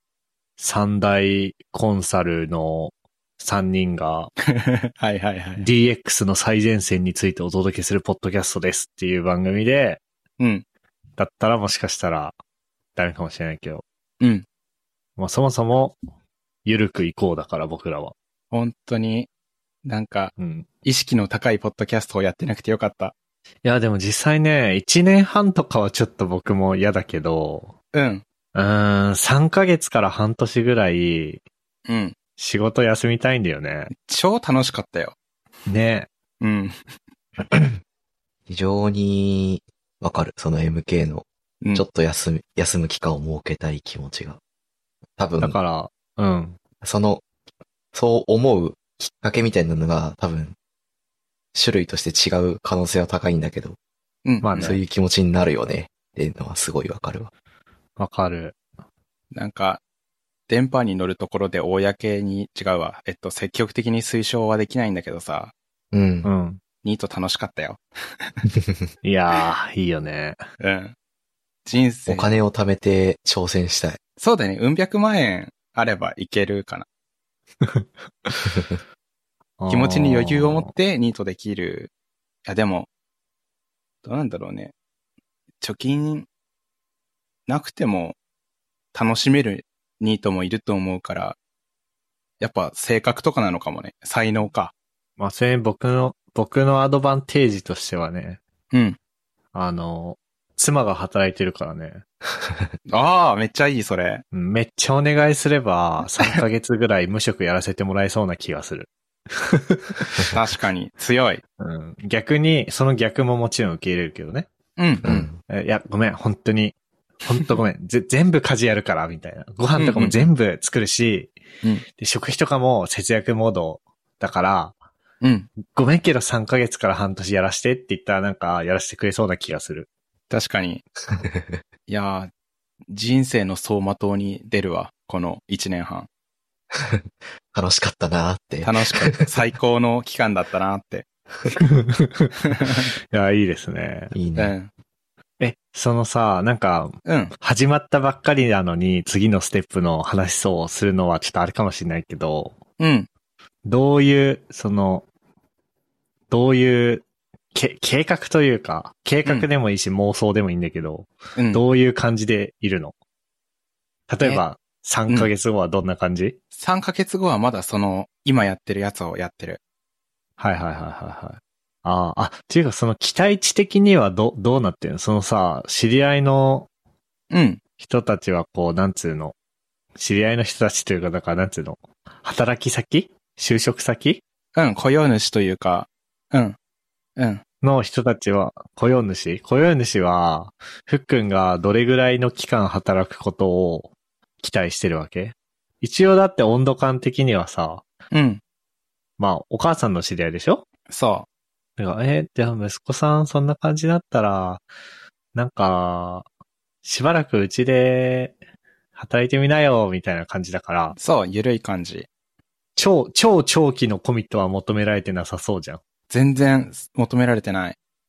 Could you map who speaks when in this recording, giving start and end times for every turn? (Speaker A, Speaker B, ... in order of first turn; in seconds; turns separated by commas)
Speaker A: 0.6-4.3, Speaker B: 4.5-5.7, Speaker A: 5.6-10.0, Speaker B: 10.4-10.6, Speaker A: 11.2-12.3, Speaker A: 12.9-13.8, Speaker A: 15.2-16.0, Speaker A: 16.6-18.1, Speaker B: 18.5-19.3, Speaker B: 19.8-20.3, Speaker A: 20.4-20.7, Speaker B: 20.8-23.1, Speaker A: 23.6-27.7, Speaker B: 27.9-28.2, Speaker A: 28.5-31.4, Speaker B: 31.9-32.1, Speaker A: 32.4-33.9, Speaker B: 33.9-35.1, Speaker A: 35.7-36.1, Speaker B: 36.4-36.8, Speaker C: 38.5-44.4, Speaker C: 45.2-45.6, Speaker A: 45.4-46.6, Speaker C: 46.8-47.2, Speaker C: 47.9-50.5, Speaker C: 51.5-53.8, Speaker B: 54.2-54.7, Speaker A: 54.4-54.8, Speaker C: 54.5-57.3, Speaker A: 58.0-58.5, Speaker B: 59.3-59.8, Speaker B: 60.5-65.5, Speaker C: 65.9-66.3, Speaker A: 66.2-66.6, Speaker B: 66.8-68.3, Speaker A: 69.0-70.4, Speaker B: 70.6-70.9, Speaker B: 71.7-72.3, Speaker C: 72.1-74.0, Speaker B: 74.2-76.8, Speaker A: 77.6-78.6, Speaker A: 79.6-80.7, Speaker B: 79.7-81.9, Speaker B: 82.5-82.9, Speaker B: 84.0-84.7, Speaker B: 85.6-86.3, Speaker B: 87.5-88.2, Speaker B: 88.9-91.4, Speaker B: 92.4-94.7, Speaker A: 95.2-98.4, Speaker B: 98.7-99.0, Speaker A: 99.5-102.0, Speaker B: 102.9-104.2, Speaker A: 104.3-110.2, Speaker B: 110.3-111.4, Speaker A: 111.6-114.5, Speaker B: 114.8-115.2, Speaker C: 115.0-115.4, Speaker A: 115.5-121.3, Speaker B: 119.8-120.3, Speaker A: 121.9-124.7, Speaker B: 125.2-125.5, Speaker A: 125.6-129.9, Speaker B: 130.3-130.8, Speaker C: 131.1-131.6, Speaker B: 131.9-132.3, Speaker B: 132.9-136.1, Speaker C: 136.7-139.3, Speaker B: 138.6-141.0, Speaker A: 141.6-142.3, Speaker B: 142.5-142.9, Speaker A: 143.1-144.1, Speaker C: 144.1-144.5, Speaker B: 144.4-144.7, Speaker A: 145.4-152.6, Speaker B: 147.0-147.3, Speaker B: 152.8-153.1, Speaker A: 153.6-155.1, Speaker A: 156.3-162.9, Speaker B: 161.3-161.6, Speaker A: 164.1-166.4, Speaker B: 166.6-169.6, Speaker A: 170.4-176.7, Speaker B: 177.3-177.6, Speaker A: 177.8-179.3, Speaker A: 179.9-184.2, Speaker B: 184.5-186.6, Speaker B: 187.2-187.4, Speaker A: 187.6-197.8, Speaker B: 198.1-198.4, Speaker A: 199.2-200.6, Speaker B: 200.9-201.2, Speaker A: 201.8-204.6, Speaker A: 205.3-206.2, Speaker A: 206.8-208.4, Speaker A: 208.9-211.0, Speaker B: 210.9-212.1, Speaker A: 212.8-215.8, Speaker B: 216.1-217.8